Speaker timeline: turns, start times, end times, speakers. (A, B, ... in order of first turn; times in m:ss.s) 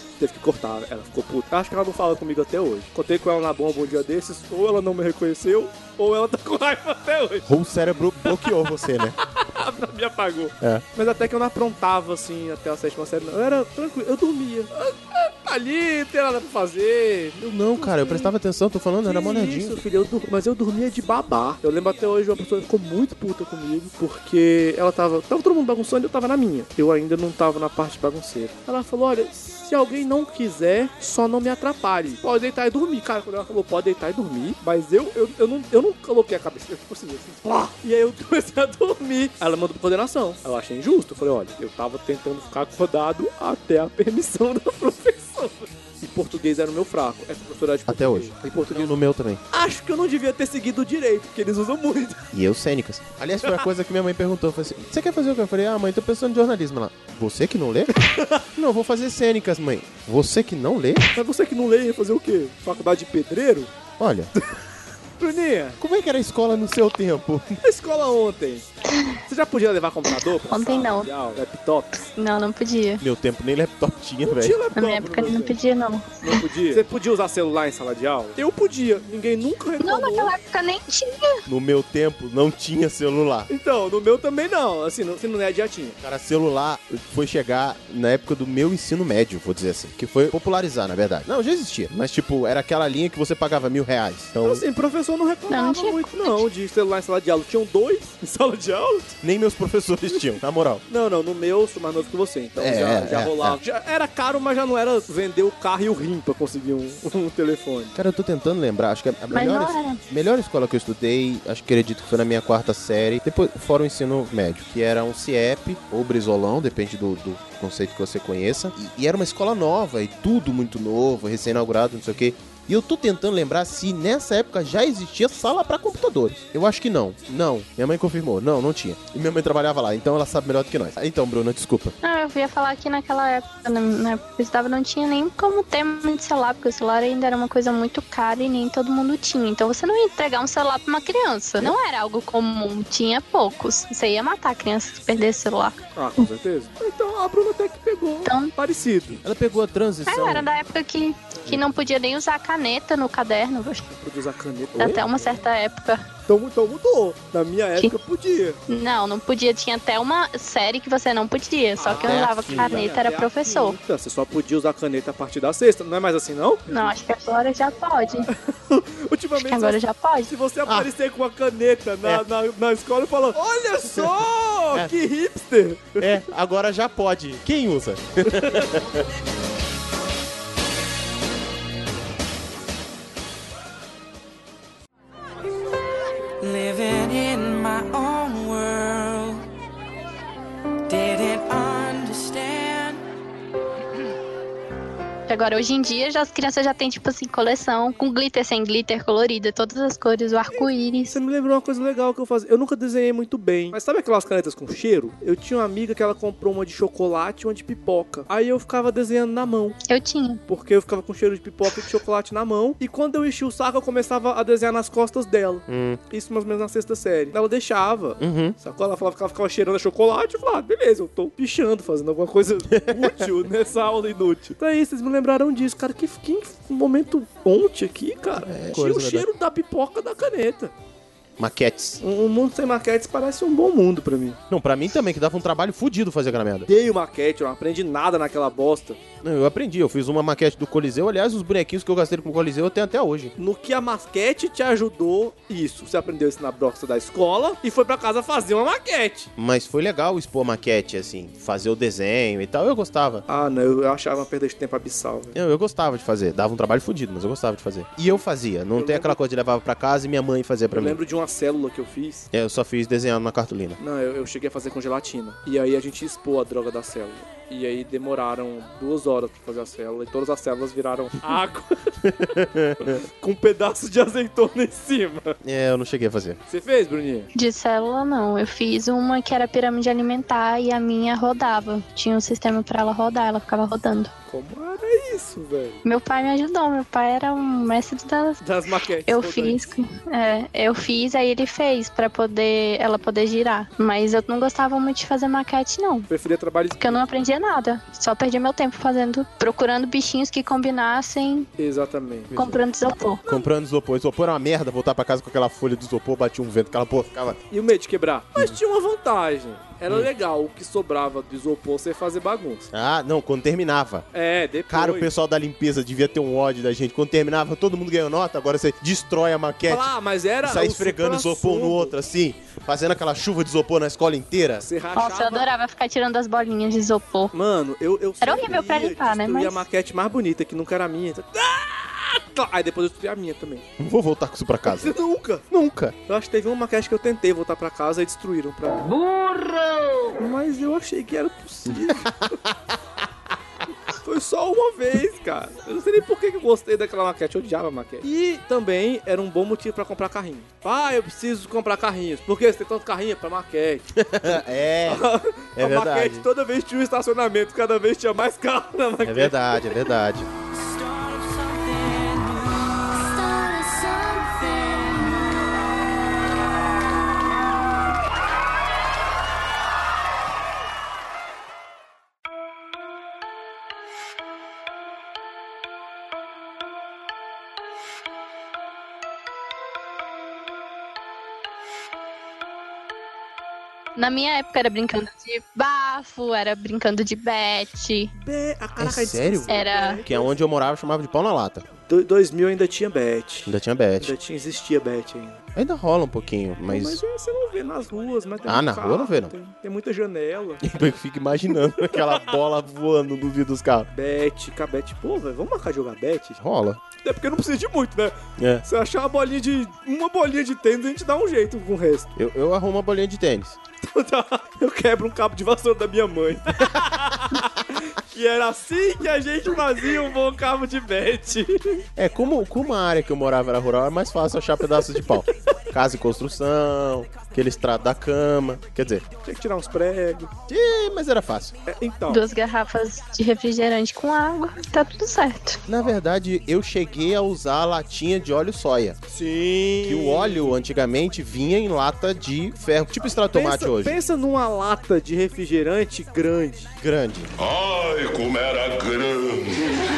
0:00.2-0:07.5 A
0:07.4-0:09.2 B
0:08.2-0:18.3 A
0:17.4-0:19.8 B
0:19.0-0:48.9 A
0:47.9-0:49.4 B
0:49.5-0:52.3 A
0:52.3-0:58.0 B
0:57.9-0:58.4 A
0:58.5-1:01.1 B
1:01.1-1:03.7 A
1:04.0-1:04.3 B
1:05.2-1:05.8 A
1:05.8-1:07.6 B
1:07.6-1:08.7 A
1:09.2-1:12.1 A
1:10.5-1:11.1 C
1:12.2-1:13.0 C
1:13.0-1:14.6 B
1:14.2-1:15.6 A
1:14.7-1:16.4 C
1:16.2-1:20.3 A
1:19.8-1:21.4 C
1:21.5-1:23.5 B
1:23.5-1:26.0 A
1:26.0-1:34.6 B
1:34.4-1:39.2 A
1:35.5-1:36.4 C
1:39.2-1:40.8 B
1:40.9-1:47.9 A
1:42.6-1:43.6 B
1:47.9-2:12.0 B
1:49.3-1:50.0 C
2:12.0-2:25.8 C
2:26.0-2:29.2 A
2:28.2-2:28.5 C
2:29.2-2:30.5 B
2:30.1-2:33.9 C
2:33.9-2:35.3 A
2:34.8-2:35.0 B
2:34.8-2:36.0 C
2:36.3-2:38.6 A
2:38.7-2:43.8 C
2:41.8-2:46.9 A
2:41.9-2:42.8 B
2:46.7-2:48.3 C
2:48.3-2:56.2 A
2:49.4-2:50.3 C
2:53.8-2:54.9 B
2:56.0-2:59.0 B
2:58.3-2:58.7 A
3:06.4-3:09.4 D
3:10.9-3:13.0 D
3:15.3-3:21.2 C
3:20.5-3:29.8 A
3:29.9-3:30.4 C
3:30.5-3:50.7 A
3:35.7-3:36.0 B
3:38.2-3:38.6 B
3:42.7-3:43.3 B
3:48.4-3:49.3 B
3:51.4-3:52.0 B
3:52.0-3:54.4 A
3:54.5-3:56.7 B
3:56.7-3:59.0 A
3:59.2-4:03.3 B
4:03.4-4:09.3 A
4:09.4-4:13.2 B
4:13.3-4:15.4 A
4:15.3-4:21.0 B
4:18.7-4:19.2 A
4:20.7-4:22.3 A
4:22.3-4:23.8 B
4:23.8-4:32.0 A
4:32.0-4:33.0 B
4:32.8-4:35.4 A
4:35.4-4:36.4 B
4:36.5-4:37.3 A
4:37.3-4:44.1 C
4:44.3-4:45.8 A
4:45.8-4:48.4 C
4:48.4-4:49.7 A
4:49.1-4:56.1 C
4:56.1-4:57.0 A
4:56.8-5:01.5 C
5:01.6-5:02.3 A
5:02.3-5:02.6 B
5:02.3-5:03.2 C
5:03.2-5:07.4 B
5:07.5-5:12.7 A
5:12.7-5:14.0 B
5:14.1-5:15.1 A
5:14.7-5:24.6 B
5:19.7-5:21.9 A
5:24.6-5:25.5 A
5:25.0-5:27.3 C
5:27.3-5:33.6 A
5:28.2-5:29.6 C
5:33.8-5:35.0 B
5:34.7-5:35.4 A
5:35.5-5:36.0 B
5:36.1-5:39.0 A
5:40.2-5:42.3 A
5:41.7-5:42.7 B
5:43.9-5:59.9 A
5:53.9-5:55.0 B
5:55.6-5:56.3 B
5:59.0-6:00.3 B
6:00.6-6:05.4 D
6:24.0-6:28.1 C
6:28.2-6:30.4 A
6:28.8-6:31.6 B
6:29.5-6:30.0 C
6:31.9-6:35.4 A
6:33.4-6:34.1 B
6:35.5-6:37.0 B
6:36.7-6:40.6 A
6:38.4-6:39.3 B
6:40.6-6:43.9 B
6:41.7-6:42.3 A
6:43.9-6:46.4 A
6:46.4-6:46.8 B
6:47.0-6:52.1 A
6:48.4-6:48.6 B
6:52.2-6:53.6 B
6:53.8-7:01.8 A
7:02.0-7:09.0 B
7:09.2-7:10.3 A
7:10.5-7:11.6 B
7:11.6-7:12.2 A
7:12.1-7:15.6 C
7:15.7-7:19.0 B
7:19.1-7:20.6 A
7:19.8-7:24.0 B
7:23.3-7:26.7 A
7:26.8-7:27.3 B
7:27.4-7:29.7 E